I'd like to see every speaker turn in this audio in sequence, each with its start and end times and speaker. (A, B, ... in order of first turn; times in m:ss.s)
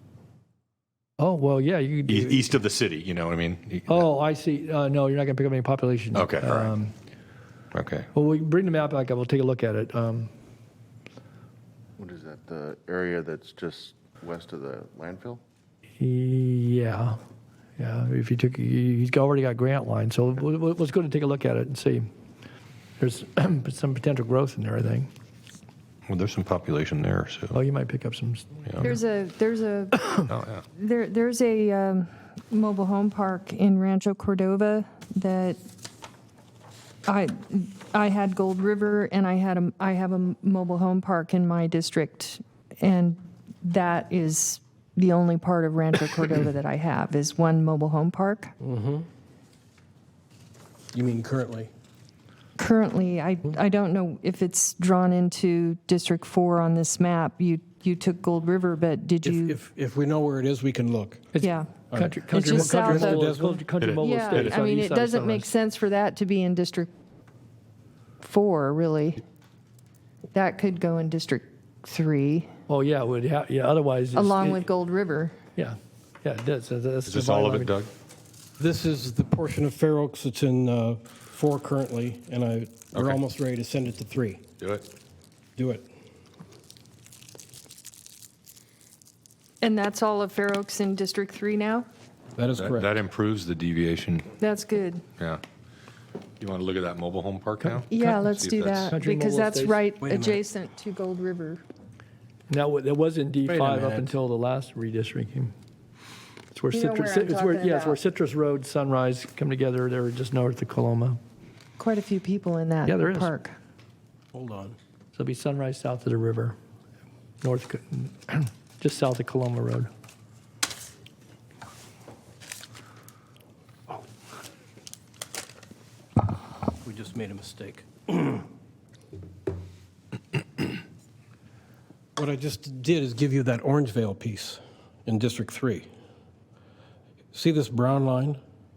0:01.2-0:02.5 A
0:02.1-0:04.1 B
0:03.9-0:06.9 A
0:06.1-0:06.8 B
0:07.7-0:08.1 B
0:08.1-0:10.3 A
0:12.0-0:15.4 C
0:16.0-0:17.2 A
0:17.8-0:22.1 A
0:23.0-0:25.1 A
0:26.1-0:27.6 B
0:27.5-0:29.0 A
0:28.8-0:35.6 D
0:30.3-0:30.6 B
0:37.1-0:48.5 D
0:48.6-0:49.1 E
0:50.9-0:51.7 E
0:52.6-0:59.6 D
0:59.2-1:01.3 E
1:01.4-1:05.5 A
1:01.4-1:01.7 D
1:01.9-1:03.6 E
1:02.3-1:03.2 D
1:03.8-1:04.5 B
1:04.0-1:06.9 D
1:08.2-1:09.2 D
1:10.3-1:12.5 D
1:12.7-1:14.6 A
1:14.2-1:15.4 D
1:15.6-1:17.8 A
1:17.1-1:17.9 B
1:18.6-1:24.4 E
1:22.9-1:23.2 B
1:24.6-1:24.8 B
1:25.6-1:25.9 E
1:29.6-1:31.9 D
1:32.4-1:32.9 E
1:32.6-1:34.3 B
1:34.4-1:35.0 D
1:36.4-1:38.9 B
1:37.6-1:38.2 A
1:37.9-1:41.6 D
1:38.9-1:39.9 A
1:40.0-1:40.4 E
1:42.5-1:45.5 A
1:43.5-1:44.1 E
1:46.5-1:51.2 A
1:46.7-1:48.0 D
1:51.8-1:53.6 D
1:52.8-1:53.4 A
1:54.3-1:54.8 E
1:55.1-1:56.6 A
1:57.4-1:59.9 A
2:06.8-2:08.4 E
2:12.2-2:15.9 E
2:17.3-2:18.4 E